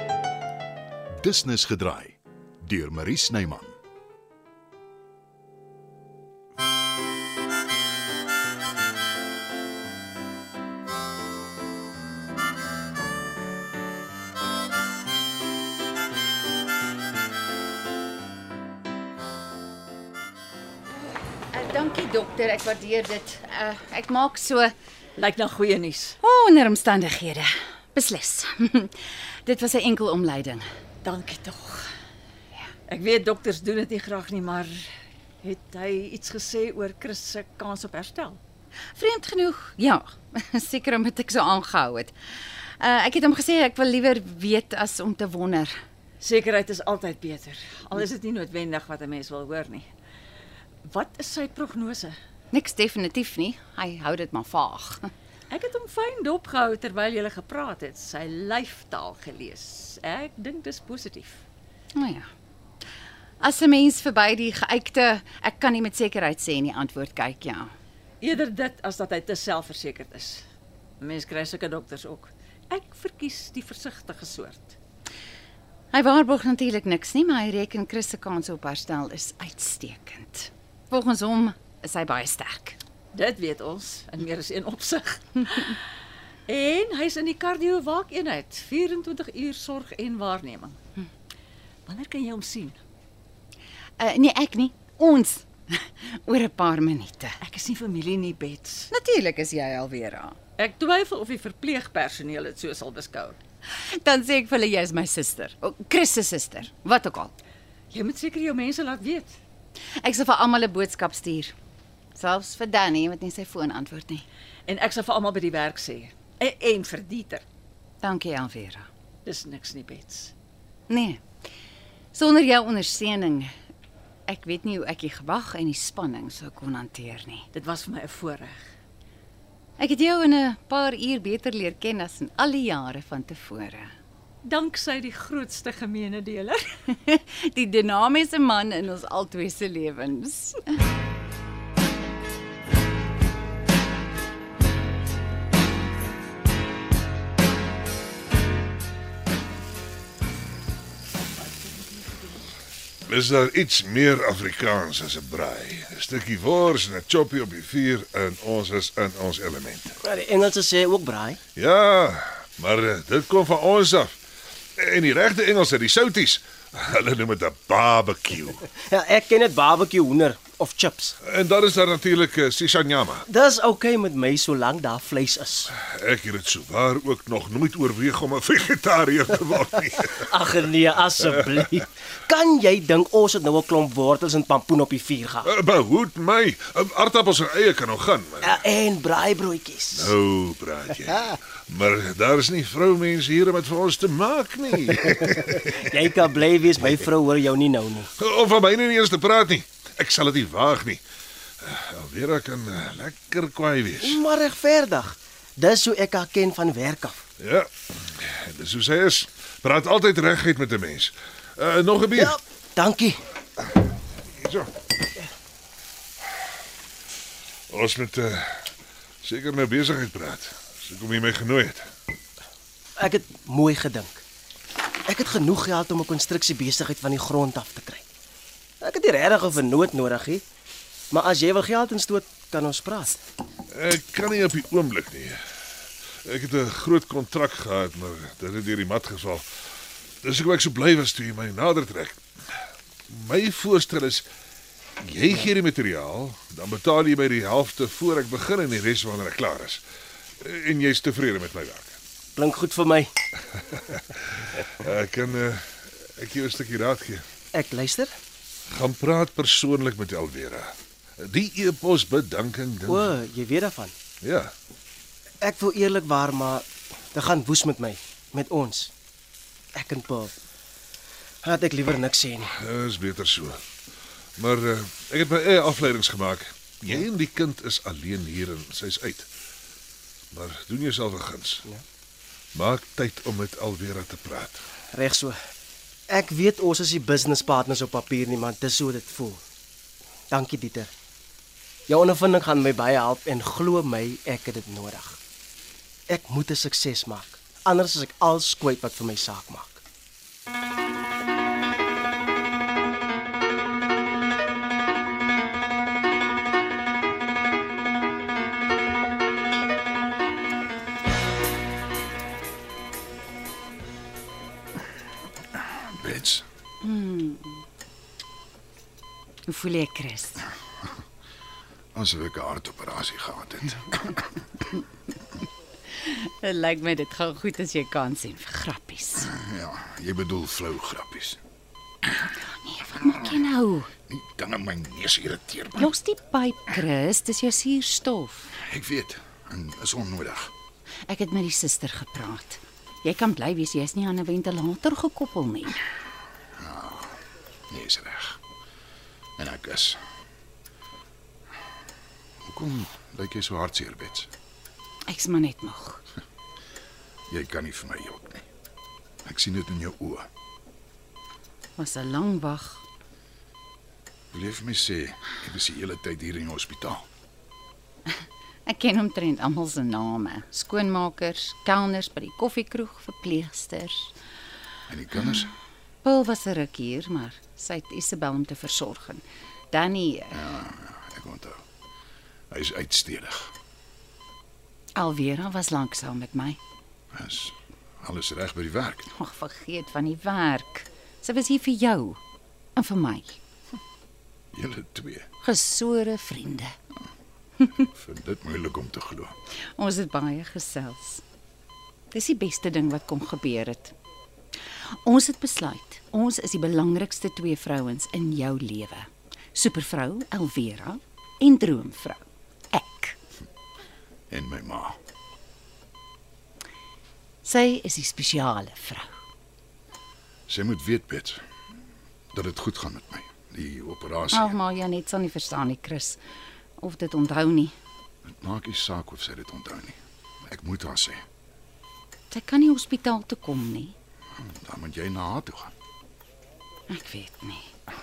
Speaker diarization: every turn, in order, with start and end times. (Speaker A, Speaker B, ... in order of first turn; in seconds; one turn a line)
Speaker A: 1.2-3.8
Speaker B: 21.5-24.7
Speaker C: 25.2-26.2
Speaker B: 26.2-30.7
Speaker C: 31.0-31.9
Speaker C: 32.9-34.8
Speaker C: 35.4-38.4
Speaker B: 39.0-42.1
Speaker B: 42.8-45.7
Speaker C: 46.2-49.9
Speaker C: 50.8-52.1
Speaker B: 52.5-55.1
Speaker C: 55.5-61.4
Speaker B: 63.4-67.7
Speaker C: 68.2-70.4
Speaker C: 71.0-74.8
Speaker B: 75.9-80.4
Speaker B: 80.9-82.8
Speaker C: 83.1-85.8
Speaker C: 86.5-90.8
Speaker C: 91.8-92.8
Speaker B: 94.0-97.3
Speaker C: 97.4-98.9
Speaker B: 98.9-100.4
Speaker C: 100.6-103.4
Speaker B: 103.8-107.3
Speaker C: 107.9-109.4
Speaker B: 110.0-111.5
Speaker B: 112.1-114.2
Speaker C: 114.7-117.4
Speaker B: 118.0-118.9
Speaker C: 119.2-120.3
Speaker B: 120.9-121.2
Speaker B: 122.1-123.5
Speaker B: 124.3-127.4
Speaker C: 127.5-128.6
Speaker B: 129.8-133.9
Speaker C: 134.4-136.7
Speaker B: 136.9-140.6
Speaker C: 151.4-152.3
Speaker D: 153.1-160.0
Speaker E: 160.0-161.4
Speaker D: 161.6-164.1
Speaker D: 164.8-168.7
Speaker E: 168.8-171.1
Speaker D: 171.2-173.2
Speaker E: 173.3-175.7
Speaker D: 175.7-180.5
Speaker E: 180.3-185.5
Speaker D: 181.3-181.6
Speaker D: 185.4-188.6
Speaker E: 188.4-190.1
Speaker D: 189.9-196.0
Speaker E: 195.8-198.1
Speaker D: 198.2-201.0
Speaker D: 201.6-204.2
Speaker E: 204.0-207.2
Speaker D: 207.4-212.3
Speaker E: 212.2-213.2
Speaker D: 214.3-214.7
Speaker D: 217.7-218.7
Speaker D: 219.2-221.8
Speaker E: 223.0-224.2
Speaker E: 225.1-228.0
Speaker E: 228.8-230.4
Speaker E: 231.1-233.2
Speaker D: 233.7-235.4
Speaker D: 236.2-239.4
Speaker D: 240.2-242.2
Speaker D: 243.1-244.2
Speaker D: 245.0-249.8
Speaker D: 250.4-251.9
Speaker E: 252.3-253.1
Speaker D: 253.7-257.2
Speaker E: 257.5-258.1
Speaker D: 258.7-263.1
Speaker E: 262.9-263.9
Speaker D: 264.2-264.5
Speaker E: 265.4-268.9
Speaker E: 269.7-270.3
Speaker E: 271.4-272.5
Speaker D: 272.5-273.6
Speaker D: 274.4-279.3
Speaker D: 280.3-281.6
Speaker D: 282.5-284.6
Speaker E: 284.9-285.4
Speaker E: 286.1-289.4
Speaker E: 290.3-290.9
Speaker E: 291.9-295.2
Speaker E: 296.1-299.8
Speaker A: 315.9-316.4
Speaker B: 316.8-317.6
Speaker B: 319.5-320.4
Speaker A: 321.9-324.3
Speaker B: 326.1-329.2
Speaker A: 329.2-331.4
Speaker B: 332.6-333.7
Speaker A: 334.1-335.9
Speaker B: 335.9-338.4
Speaker A: 338.5-340.5
Speaker B: 341.1-345.8
Speaker A: 346.6-347.2
Speaker A: 347.7-348.4
Speaker A: 349.4-350.0
Speaker A: 352.4-354.3
Speaker B: 355.1-356.0
Speaker A: 357.3-358.4
Speaker A: 359.2-360.3
Speaker B: 361.8-362.8
Speaker A: 364.3-367.1
Speaker B: 368.6-374.1
Speaker A: 374.9-375.5
Speaker B: 376.0-380.2
Speaker A: 380.3-381.6
Speaker A: 382.5-383.5
Speaker B: 384.9-386.6
Speaker A: 387.1-389.1
Speaker B: 389.2-392.2
Speaker B: 392.8-393.4
Speaker A: 394.5-395.3
Speaker B: 395.4-396.8
Speaker A: 397.7-399.4
Speaker B: 399.7-401.2
Speaker B: 402.1-403.9
Speaker B: 404.9-413.1
Speaker A: 414.3-415.0
Speaker B: 417.4-419.2
Speaker A: 420.5-421.4
Speaker A: 422.3-424.6
Speaker B: 424.4-426.2
Speaker B: 426.8-427.7
Speaker A: 428.3-431.2
Speaker B: 432.3-433.9
Speaker A: 434.4-435.7
Speaker B: 436.9-437.7